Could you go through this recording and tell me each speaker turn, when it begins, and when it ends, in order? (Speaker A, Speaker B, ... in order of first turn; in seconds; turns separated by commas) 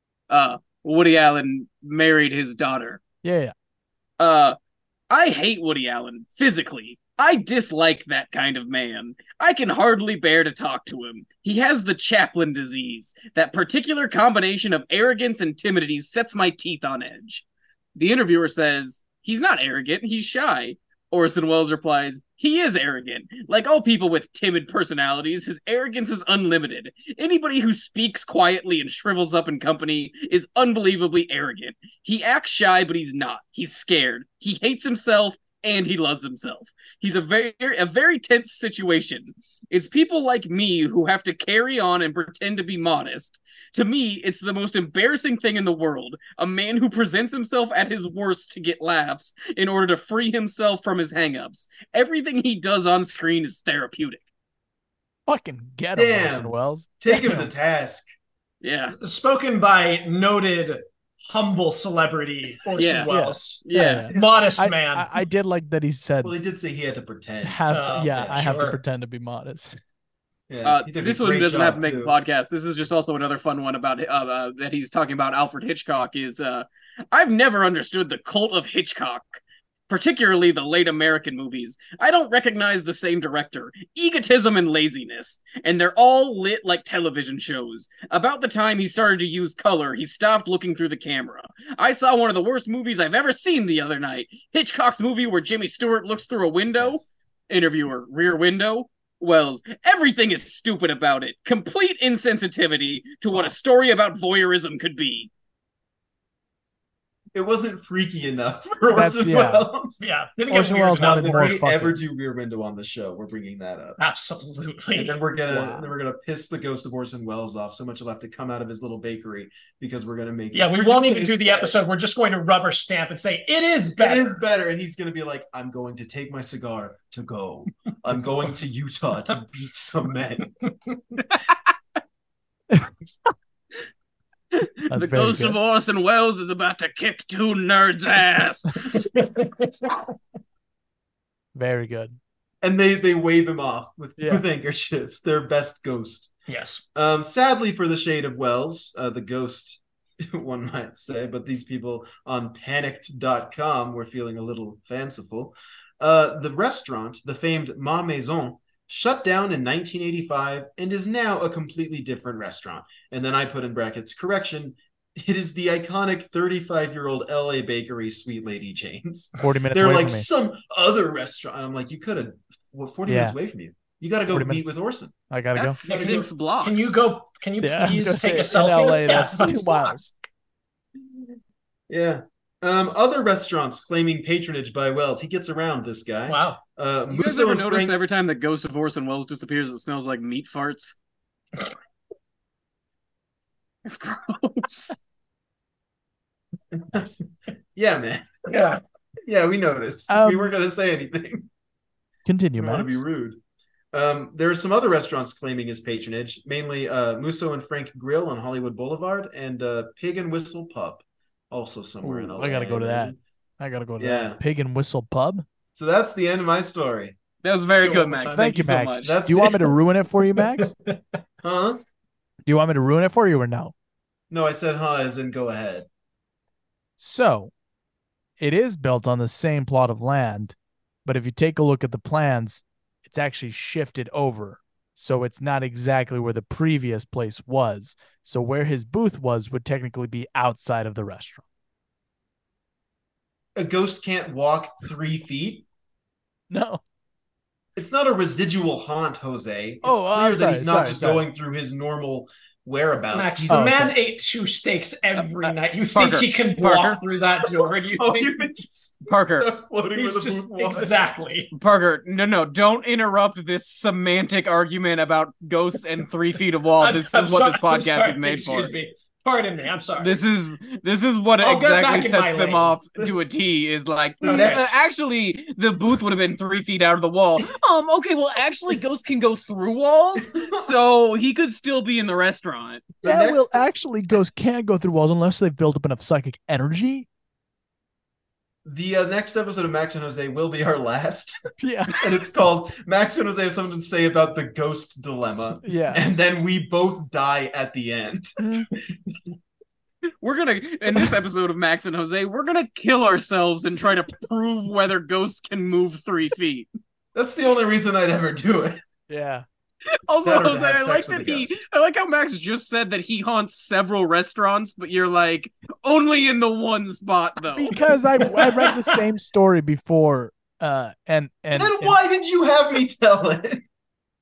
Speaker A: 0.3-3.0, Speaker B: 3.2-3.5, Speaker A: 4.2-4.6, Speaker A: 5.1-17.4, Speaker A: 17.9-54.2, Speaker B: 55.3-57.5, Speaker C: 55.9-58.1, Speaker A: 58.6-58.9, Speaker D: 59.0-65.1, Speaker A: 62.8-63.1, Speaker B: 63.1-66.3, Speaker A: 63.6-64.1, Speaker C: 66.2-68.7, Speaker B: 67.4-69.8, Speaker D: 67.7-68.8, Speaker C: 70.5-72.2, Speaker A: 70.6-105.3, Speaker C: 96.8-97.1, Speaker C: 107.3-110.0, Speaker B: 108.9-109.7, Speaker D: 110.0-111.6, Speaker B: 110.5-112.0, Speaker C: 111.0-114.0, Speaker D: 114.0-115.2, Speaker C: 114.9-121.8, Speaker B: 115.5-115.9, Speaker D: 120.5-124.4, Speaker C: 124.0-130.6, Speaker A: 134.5-139.0, Speaker B: 134.9-135.6, Speaker D: 139.1-140.0, Speaker B: 141.5-142.2, Speaker C: 142.6-146.3, Speaker B: 144.2-144.4, Speaker D: 146.5-146.8, Speaker C: 146.9-175.1, Speaker B: 169.4-170.3, Speaker B: 173.1-173.4, Speaker B: 174.3-174.7, Speaker B: 175.3-175.8, Speaker A: 175.5-176.9, Speaker D: 175.8-180.0, Speaker B: 177.6-180.1, Speaker C: 181.9-188.0, Speaker D: 186.3-186.6, Speaker A: 187.1-190.9, Speaker A: 193.8-195.0, Speaker C: 196.8-197.2, Speaker C: 197.8-198.3, Speaker D: 198.5-198.8, Speaker C: 199.3-201.5, Speaker B: 200.1-200.5, Speaker B: 202.2-203.0, Speaker C: 202.6-203.4, Speaker C: 203.9-213.2, Speaker B: 212.0-215.4, Speaker C: 214.0-214.4, Speaker C: 215.7-217.2, Speaker A: 217.4-219.1, Speaker D: 217.8-218.4, Speaker B: 218.3-220.7, Speaker C: 219.0-219.8, Speaker D: 220.3-220.9, Speaker C: 221.4-221.8, Speaker B: 222.4-223.7, Speaker C: 224.3-225.9, Speaker B: 227.0-227.5, Speaker B: 228.4-241.4, Speaker C: 243.6-245.7, Speaker B: 246.5-246.8, Speaker C: 247.8-253.8, Speaker B: 249.8-251.2, Speaker D: 253.1-258.3, Speaker B: 253.5-254.0, Speaker A: 255.4-257.0, Speaker C: 258.0-260.9, Speaker A: 259.1-259.5, Speaker D: 259.9-261.5, Speaker A: 261.5-268.7, Speaker D: 266.8-270.2, Speaker A: 270.0-282.9, Speaker D: 271.4-272.8, Speaker C: 274.2-274.7, Speaker D: 274.2-274.7, Speaker C: 280.3-280.7, Speaker C: 283.0-283.7, Speaker B: 283.0-287.1, Speaker C: 288.6-291.4, Speaker B: 291.6-292.1, Speaker C: 291.9-298.4, Speaker B: 295.6-296.1, Speaker B: 298.4-298.7, Speaker A: 300.2-306.7, Speaker C: 307.1-308.8, Speaker B: 309.1-309.4, Speaker A: 310.1-317.7, Speaker C: 310.2-311.6, Speaker B: 317.5-322.0, Speaker D: 318.4-318.7, Speaker C: 321.5-323.6